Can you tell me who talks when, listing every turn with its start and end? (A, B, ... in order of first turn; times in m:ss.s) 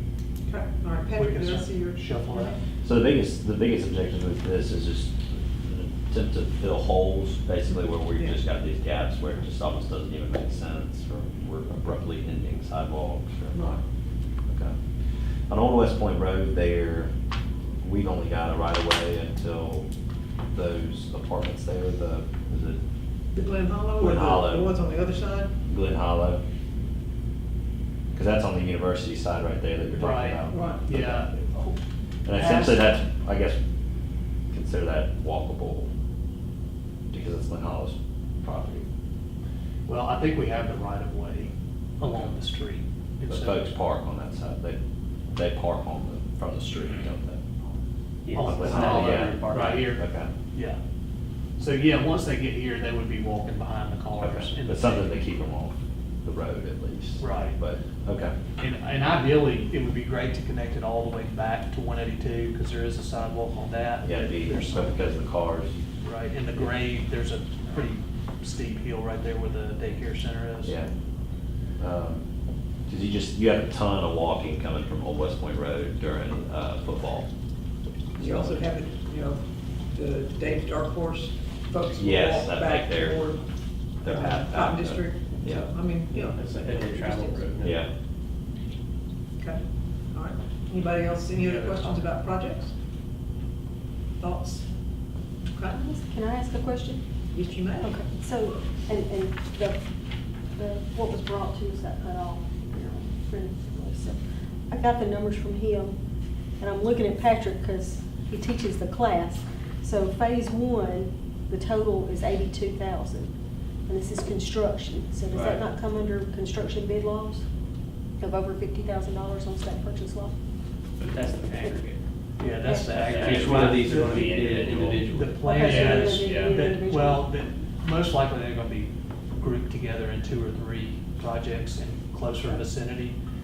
0:00.4-0:02.6 A
0:01.1-0:02.6 B
0:02.8-0:13.8 C
0:13.5-0:13.8 A
0:14.5-0:14.7 C
0:15.5-0:17.1 C
0:17.8-0:19.8 C
0:20.5-0:22.8 C
0:23.3-0:25.5 A
0:24.0-0:24.7 C
0:25.7-0:26.4 C
0:28.1-0:31.3 C
0:30.0-0:31.7 B
0:30.5-0:30.8 A
0:32.2-0:33.6 C
0:32.3-0:32.9 B
0:34.5-0:35.9 C
0:37.1-0:38.9 C
0:39.9-0:43.6 B
0:42.0-0:42.3 C
0:43.3-0:44.8 C
0:45.3-0:47.4 C
0:48.2-0:49.9 D
0:48.3-0:50.8 B
0:48.4-0:50.3 C
0:51.6-0:55.2 B
0:54.2-0:58.4 C
0:57.2-0:57.6 B
0:58.6-1:05.0 B
1:04.0-1:05.8 C
1:06.0-1:10.7 B
1:10.6-1:10.9 C
1:11.8-1:12.2 C
1:12.9-1:17.3 C
1:18.2-1:23.4 A
1:18.2-1:18.6 C
1:22.0-1:23.2 C
1:24.0-1:25.7 C
1:24.0-1:27.5 A
1:26.1-1:27.9 D
1:27.6-1:27.9 C
1:30.1-1:32.7 A
1:31.4-1:32.0 B
1:34.2-1:34.6 A
1:35.7-1:37.0 E
1:37.3-1:38.0 A
1:37.8-1:39.8 E
1:40.5-1:46.0 E
1:46.6-1:53.3 E
1:53.9-1:57.4 E
1:58.2-2:00.3 E
2:01.0-2:02.0 D
2:02.4-2:13.2 B
2:02.6-2:02.9 E
2:02.9-2:06.2 D
2:03.0-2:05.0 C
2:05.4-2:07.3 E
2:05.7-2:06.5 C